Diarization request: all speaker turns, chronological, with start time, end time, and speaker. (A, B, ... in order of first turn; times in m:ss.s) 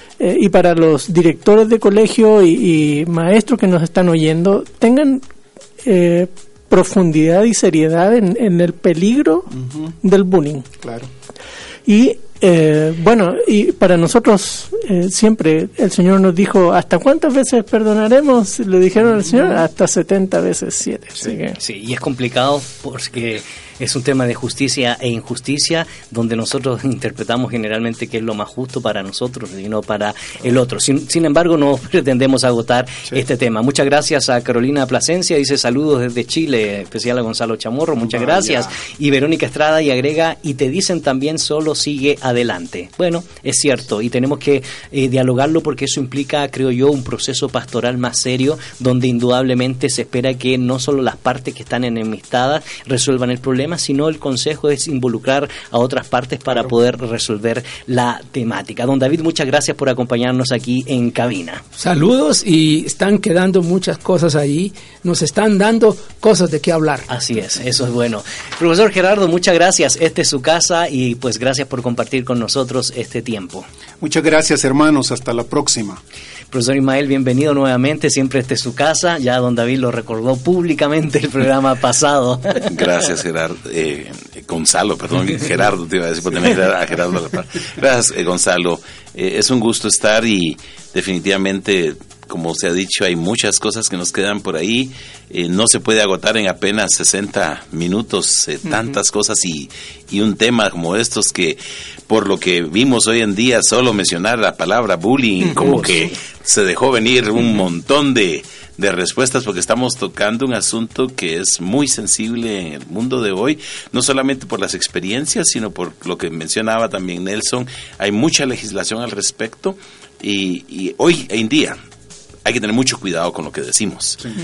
0:00.2-0:05.2 A
0:05.8-0:10.7 A
0:10.8-0:11.1 B
0:11.8-0:21.6 A
0:21.6-1:01.6 C
0:38.0-0:38.8 B
1:01.8-1:07.1 D
1:07.1-1:13.6 C
1:14.0-1:16.0 B
1:16.5-1:22.7 C
1:22.7-2:01.8 E
1:45.5-1:46.1 C
2:02.4-2:04.3 E